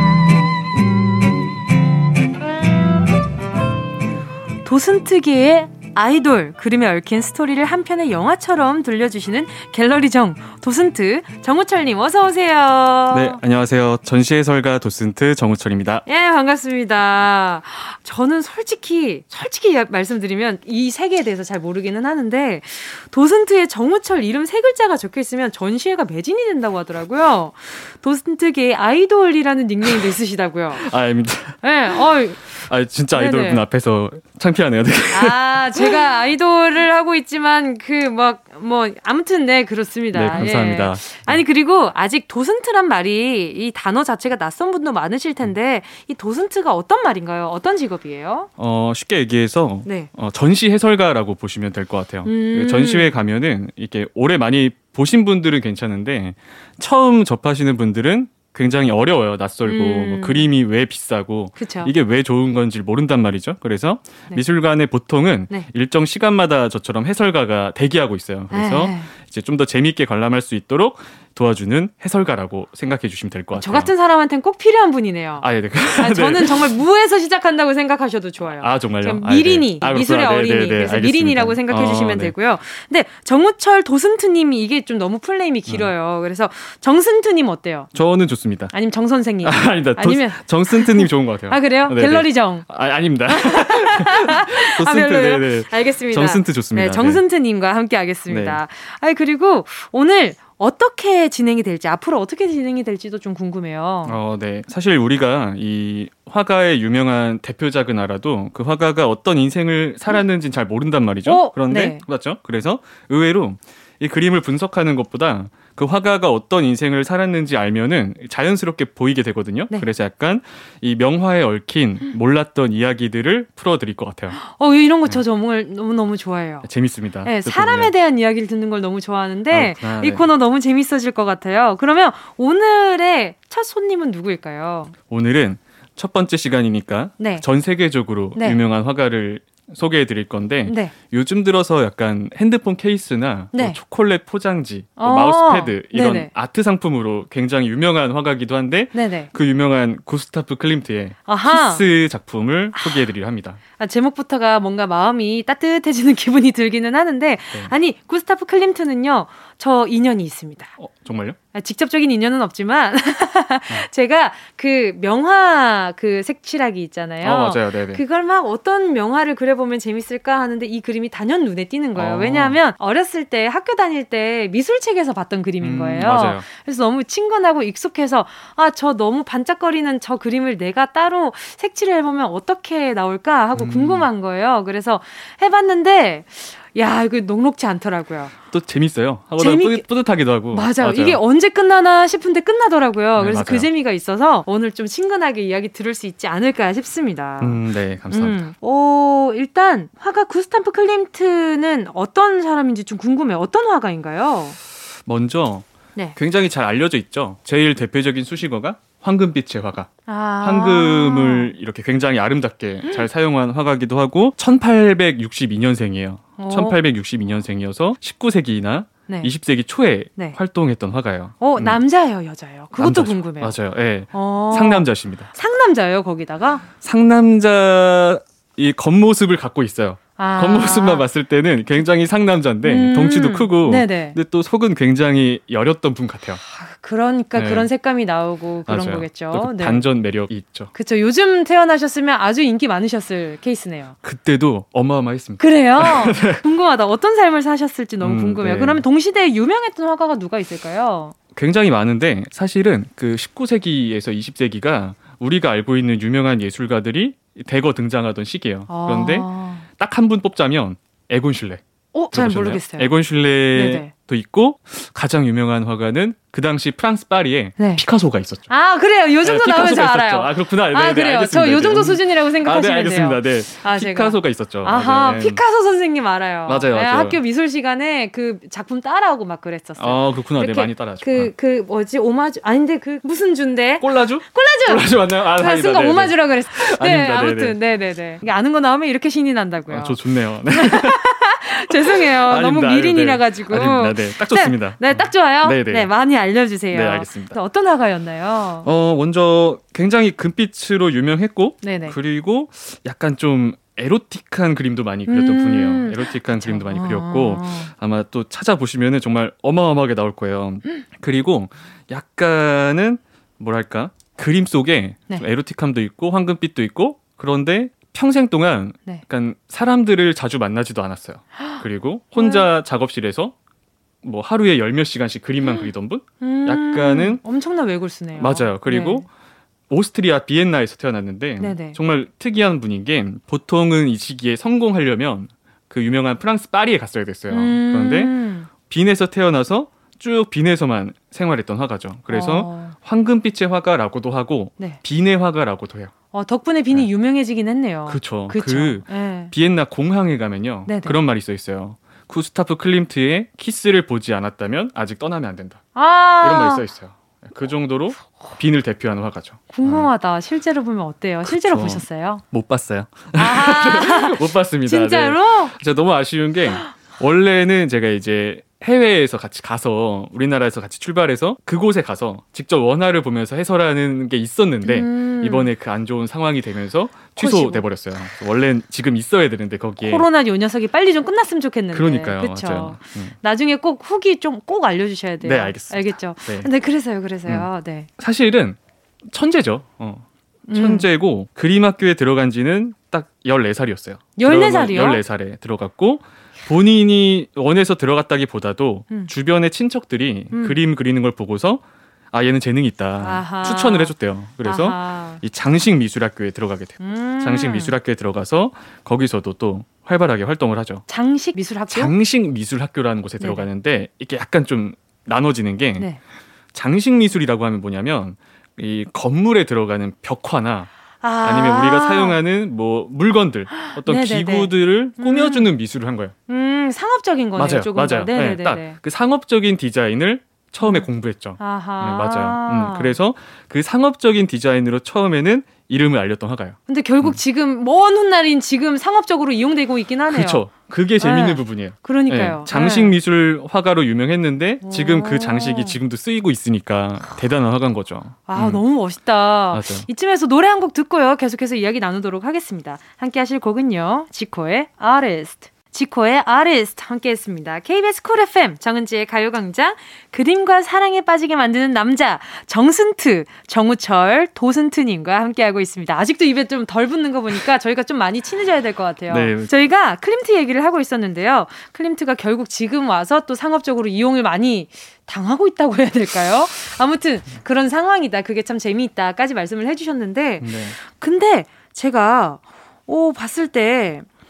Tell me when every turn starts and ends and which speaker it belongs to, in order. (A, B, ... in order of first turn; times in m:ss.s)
0:04.6-0:13.4 A
0:13.1-0:16.0 B
0:16.1-0:30.8 A
0:29.8-0:30.1 B
0:30.8-0:32.0 B
0:31.6-0:32.5 A
0:32.6-0:36.0 B
0:33.1-0:33.6 A
0:35.1-0:48.5 A
0:40.1-0:41.4 B
0:48.6-1:13.9 B
0:49.8-0:50.1 A
0:52.2-0:53.2 A
0:59.6-1:00.5 A
1:01.6-1:01.9 A
1:08.5-1:09.1 A
1:13.5-1:15.4 A
1:15.4-1:16.7 B
1:16.0-1:27.9 A
1:18.6-1:22.3 B
1:27.9-1:28.7 B
1:28.7-1:32.7 A
1:29.4-1:37.2 B
1:33.3-1:44.2 A
1:38.3-1:38.6 B
1:44.0-2:04.4 B
1:51.2-1:52.0 A
2:04.4-2:06.7 A
2:06.6-2:07.9 B
2:07.2-2:14.9 A
2:09.5-2:10.3 B
2:15.1-2:33.6 B
2:17.2-2:17.4 A
2:18.3-2:18.6 A
2:20.7-2:20.9 A
2:23.5-2:23.8 A
2:25.0-2:26.3 A
2:28.9-2:29.3 A
2:31.2-2:31.8 A
2:32.7-2:33.1 A
2:33.8-2:40.7 A
2:40.8-2:41.4 B
2:41.5-3:08.3 A
2:47.2-2:48.0 B
2:51.9-2:52.6 B
2:55.6-2:56.4 B
3:03.5-3:04.1 B
3:08.5-3:11.2 B
3:09.4-3:09.8 A
3:10.5-3:24.6 A
3:13.1-3:13.7 B
3:17.4-3:18.5 B
3:25.0-3:41.8 B
3:30.1-3:31.5 A
3:36.4-3:36.8 A
3:41.4-3:43.5 A
3:42.8-3:45.3 B
3:44.1-3:46.6 A
3:46.8-3:56.4 B
3:50.2-3:51.0 A
3:52.6-3:54.2 A
3:56.5-3:59.9 A
3:57.3-3:57.7 B
3:58.6-4:00.7 B
4:00.7-4:03.9 A
4:04.0-4:06.4 B
4:05.4-4:11.1 A
4:08.0-4:08.8 B
4:11.3-4:28.5 B
4:18.7-4:19.6 A
4:21.9-4:22.9 A
4:23.5-4:23.9 A
4:27.6-4:27.8 A
4:28.5-4:50.0 A
4:29.2-4:35.4 B
4:36.5-4:37.2 B
4:39.8-4:41.3 B
4:43.8-4:47.6 B
4:49.7-4:55.9 B
4:50.5-4:58.7 A
4:56.7-4:57.4 B
4:58.6-5:23.3 B
5:01.6-5:02.0 A
5:05.1-5:07.7 A
5:22.2-5:22.4 A
5:24.0-5:27.2 B
5:25.4-5:25.7 A
5:26.2-5:29.0 A
5:28.2-5:29.1 B
5:29.7-5:45.9 B
5:31.4-5:31.8 A
5:37.3-5:38.5 A
5:42.1-5:42.7 A
5:46.1-5:49.3 A
5:47.9-5:59.9 B
5:50.7-5:51.0 A
5:55.7-5:56.6 A
5:59.5-6:02.2 A
6:01.2-6:20.1 B
6:03.1-6:05.5 A
6:14.6-6:15.5 A
6:17.2-6:17.6 A
6:19.8-6:27.9 A
6:21.7-6:23.2 B
6:25.2-6:26.5 B
6:27.3-6:50.8 B
6:30.5-6:30.9 A
6:34.2-6:35.0 A
6:40.3-6:40.6 A
6:43.0-6:45.2 A
6:46.8-6:47.7 A
6:50.9-6:51.9 A
6:51.7-6:55.9 B
6:53.2-6:53.4 A
6:56.5-7:06.1 B
7:01.0-7:02.2 A
7:03.6-7:05.5 A
7:06.3-7:08.8 A
7:07.4-7:17.2 B
7:10.6-7:10.9 A
7:11.4-7:13.0 A
7:16.7-7:20.4 A
7:20.1-7:28.6 B
7:21.0-7:23.0 A
7:24.6-7:25.8 A
7:28.3-8:04.1 A
7:29.5-7:29.9 B
7:49.1-7:49.5 B
8:00.4-8:00.8 B